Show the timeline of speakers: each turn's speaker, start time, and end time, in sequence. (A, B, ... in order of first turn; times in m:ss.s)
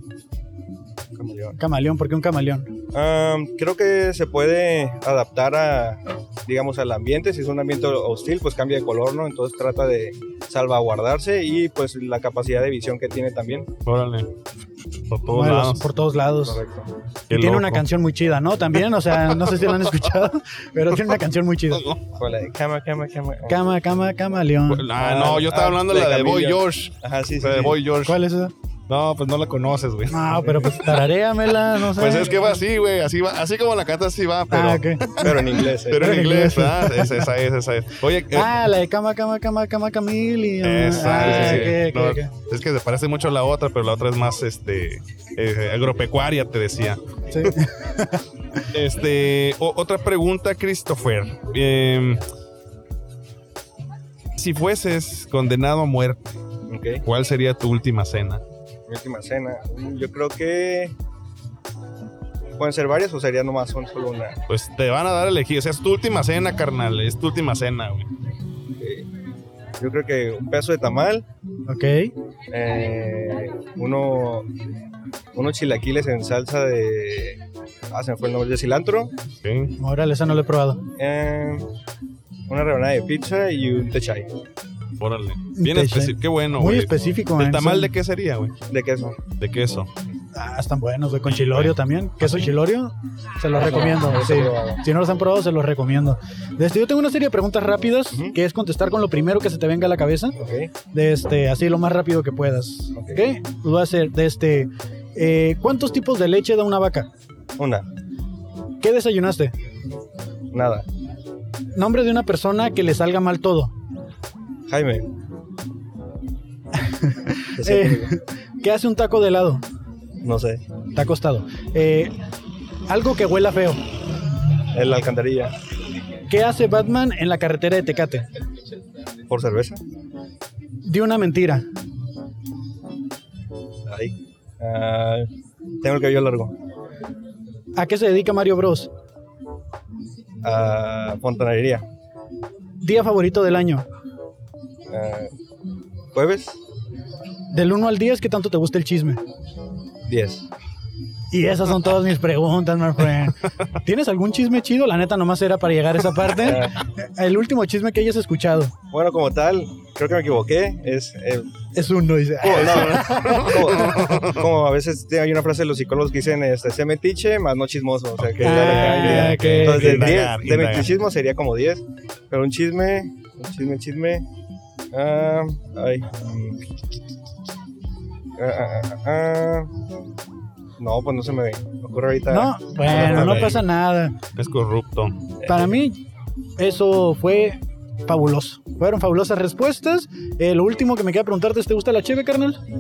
0:01.1-0:01.6 A
0:01.6-0:02.7 B
0:02.9-0:13.7 A
0:13.9-0:14.3 C
0:15.1-0:15.9 C
0:15.3-0:16.6 B
0:16.4-0:16.9 A
0:17.3-0:17.8 C
0:17.3-0:21.8 B
0:19.2-0:19.9 C
0:21.7-0:22.0 C
0:22.2-0:23.6 A
0:23.5-0:24.9 B
0:24.7-0:28.2 C
0:25.0-0:27.8 A
0:28.0-0:28.5 B
0:28.9-0:31.0 C
0:30.1-0:32.6 B
0:31.9-0:38.5 C
0:34.5-0:37.3 B
0:35.2-0:36.4 A
0:38.3-0:42.3 B
0:40.6-0:47.5 C
0:47.3-0:48.2 B
0:48.7-0:52.2 C
0:54.4-0:56.3 C
0:56.7-0:57.0 A
0:57.0-0:58.4 C
0:58.9-1:00.9 A
1:02.6-1:04.4 A
1:04.5-1:08.1 C
1:08.7-1:09.1 A
1:09.8-1:11.3 A
1:11.7-1:12.1 B
1:12.5-1:14.5 A
1:15.4-1:17.4 A
1:17.9-1:19.1 A
1:19.4-1:19.7 C
1:19.8-1:20.8 B
1:21.0-1:21.7 A
1:22.5-1:24.3 A
1:25.0-1:28.5 C
1:25.6-1:27.9 B
1:28.7-1:29.2 A
1:29.4-1:29.9 C
1:30.3-1:40.4 B
1:31.3-1:32.4 C
1:33.6-1:34.8 A
1:40.4-1:40.7 A
1:40.9-1:47.1 B
1:43.0-1:43.2 A
1:47.6-1:47.9 A
1:48.8-1:49.5 B
1:50.5-1:50.9 A
1:51.8-1:53.7 B
1:54.7-1:55.1 A
1:56.8-1:59.6 B
1:57.5-1:58.1 A
2:00.2-2:00.6 A
2:00.9-2:02.1 B
2:02.9-2:03.8 B
2:04.7-2:05.6 A
2:06.3-2:08.3 B
2:09.3-2:09.8 A
2:10.8-2:11.6 B
2:13.9-2:15.3 A
2:15.8-2:16.6 A
2:17.8-2:18.9 B
2:20.4-2:21.9 A
2:22.8-2:23.9 B
2:24.9-2:25.3 A
2:26.1-2:26.6 A
2:27.5-2:29.2 B
2:30.1-2:30.5 A
2:31.3-2:38.7 B
2:36.4-2:36.8 A
2:38.9-2:41.5 A
2:41.8-2:44.1 B
2:42.4-2:44.4 C
2:42.4-2:54.3 A
2:48.2-2:50.9 C
2:48.4-2:50.2 B
2:54.9-2:56.6 A
2:58.4-2:59.7 A
3:00.8-3:03.6 A
3:02.3-3:04.2 B
3:02.9-3:03.6 C
3:04.4-3:05.1 C
3:05.4-3:05.7 A
3:05.4-3:06.0 B
3:06.6-3:12.6 B